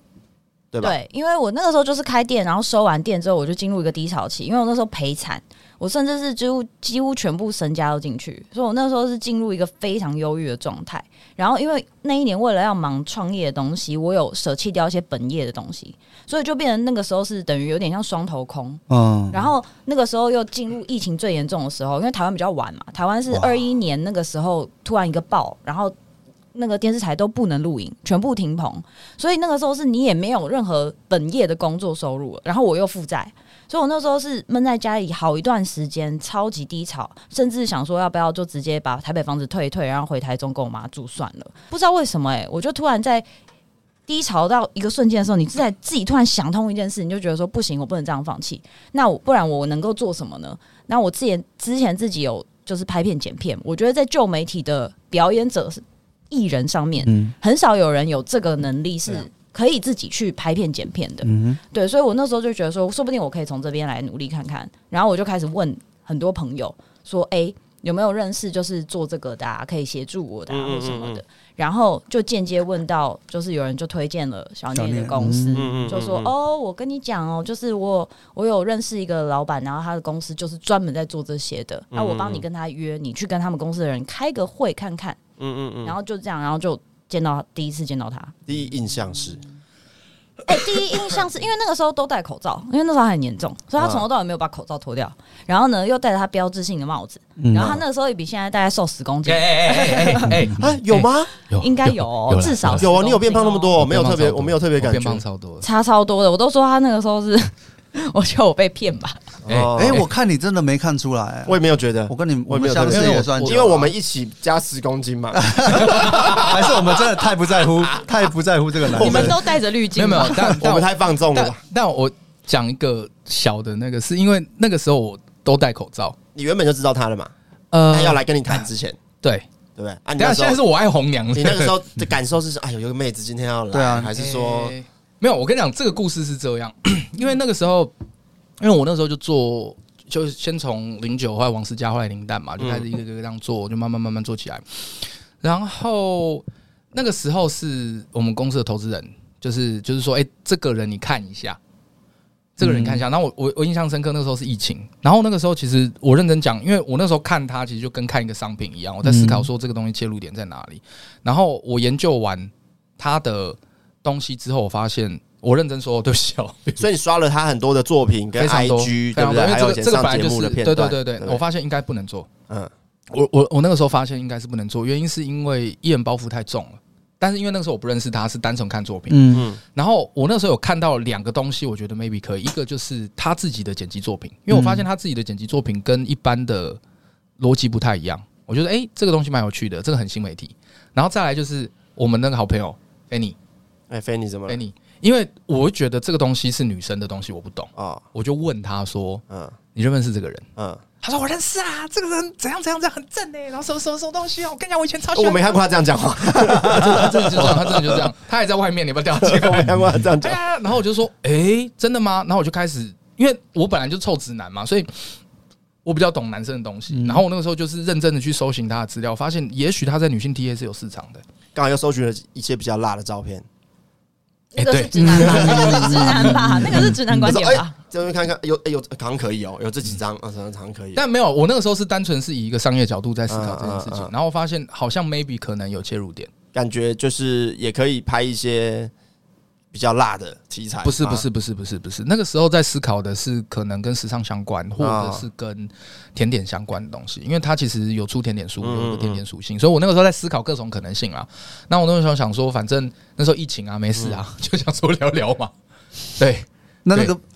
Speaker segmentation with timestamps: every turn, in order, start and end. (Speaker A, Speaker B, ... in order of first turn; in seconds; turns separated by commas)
Speaker A: 0.8-25.9, Speaker B: 18.9-19.5, Speaker B: 23.3-23.6, Speaker A: 26.5-43.2, Speaker A: 44.1-85.2, Speaker B: 57.0-57.3, Speaker B: 61.2-61.6, Speaker C: 70.5-71.2, Speaker B: 74.7-75.9, Speaker C: 75.5-76.3, Speaker C: 81.9-82.4, Speaker C: 85.4-85.9, Speaker A: 85.8-88.3, Speaker C: 88.5-89.4, Speaker A: 90.5-100.3, Speaker C: 93.8-94.0, Speaker B: 97.4-97.8, Speaker C: 97.5-97.8, Speaker D: 99.2-102.8, Speaker C: 100.6-101.3, Speaker A: 101.6-103.7, Speaker C: 102.8-105.2, Speaker D: 103.8-105.7, Speaker A: 105.6-109.2, Speaker C: 109.4-110.0, Speaker D: 109.5-110.1, Speaker B: 109.7-113.8, Speaker C: 111.5-116.6, Speaker D: 112.9-113.9, Speaker B: 115.3-119.5, Speaker D: 115.7-116.5, Speaker A: 119.0-120.3, Speaker D: 119.0-119.4, Speaker D: 119.9-126.2, Speaker B: 120.2-120.5, Speaker C: 120.4-121.6, Speaker C: 126.3-127.3, Speaker D: 127.7-128.7, Speaker C: 127.9-129.0, Speaker C: 129.8-130.6, Speaker D: 130.2-131.8, Speaker C: 131.3-134.7, Speaker B: 133.7-134.1, Speaker D: 134.1-137.9, Speaker D: 138.6-151.6, Speaker C: 142.6-142.8, Speaker D: 152.6-166.8, Speaker B: 152.6-153.0, Speaker B: 159.0-159.5, Speaker C: 166.8-171.4, Speaker D: 168.4-172.3, Speaker D: 173.1-186.8, Speaker B: 179.1-179.5, Speaker C: 179.3-179.6, Speaker B: 184.5-184.9, Speaker D: 187.4-193.3, Speaker C: 193.9-194.6, Speaker D: 194.5-199.2, Speaker C: 197.8-198.0, Speaker C: 199.3-199.6, Speaker D: 199.7-200.4, Speaker C: 200.6-200.8, Speaker D: 201.0-205.6, Speaker C: 205.1-208.0, Speaker D: 206.5-214.9, Speaker C: 209.2-210.4, Speaker D: 215.8-221.2, Speaker B: 216.9-217.2, Speaker C: 221.5-223.4, Speaker A: 224.5-227.7, Speaker D: 224.6-226.3, Speaker B: 225.0-227.4, Speaker C: 225.3-225.9, Speaker C: 227.2-231.0, Speaker D: 230.9-236.3, Speaker C: 233.3-234.1, Speaker C: 236.5-238.9, Speaker C: 239.7-241.2, Speaker D: 240.8-255.5, Speaker C: 244.8-245.2, Speaker C: 248.6-249.2, Speaker D: 256.2-257.1, Speaker B: 256.8-257.2